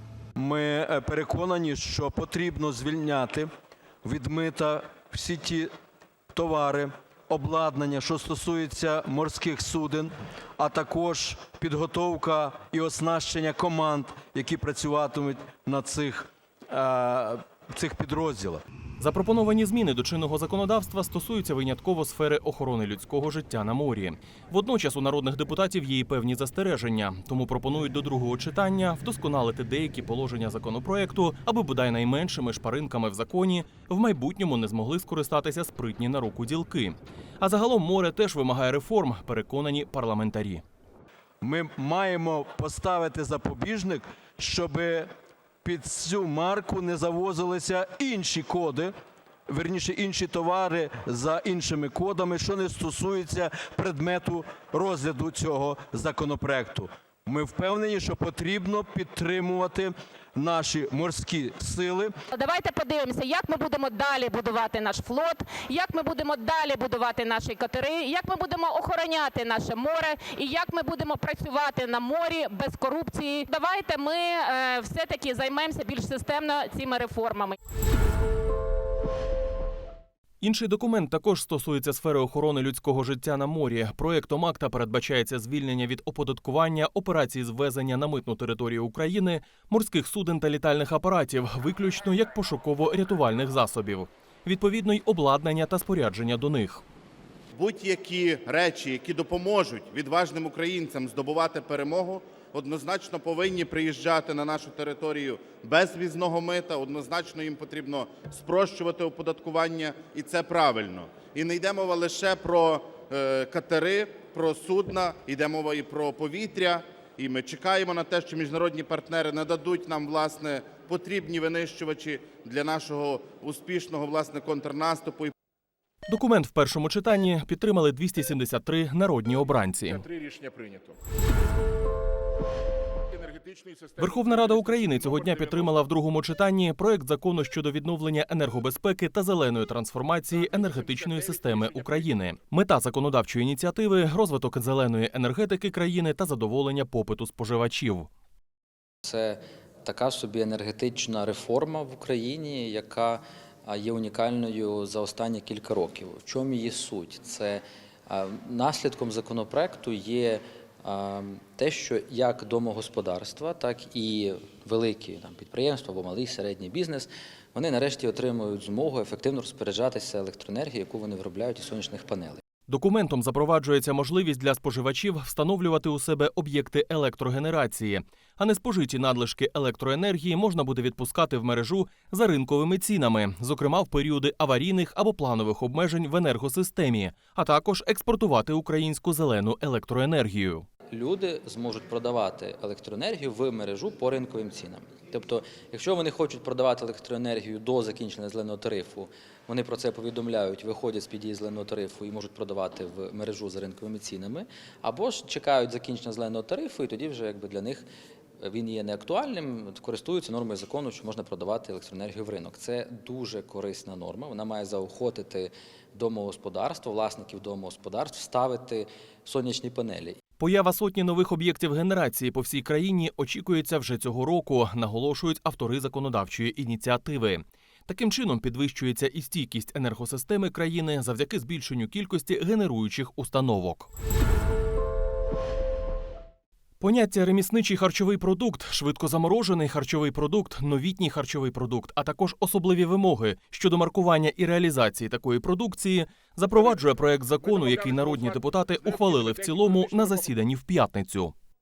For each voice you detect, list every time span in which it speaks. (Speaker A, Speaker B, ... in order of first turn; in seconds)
Speaker A: 0.4-3.5, 4.0-5.7, 6.3-18.6, 41.4-45.1, 45.6-48.9, 49.5-62.1
Speaker B: 19.0-40.6, 80.4-96.8, 126.1-130.1, 134.0-148.1, 172.7-190.7, 220.4-233.9, 236.8-251.3
Speaker C: 62.3-77.6
Speaker D: 97.6-125.3, 130.5-130.8, 133.4-135.3, 140.3-141.9, 247.6-248.0, 249.1-250.1
Speaker E: 129.9-130.8, 133.2-135.6, 141.5-141.8, 247.5-248.8, 249.5-250.1
Speaker F: 149.1-172.4, 190.9-207.9, 208.4-220.2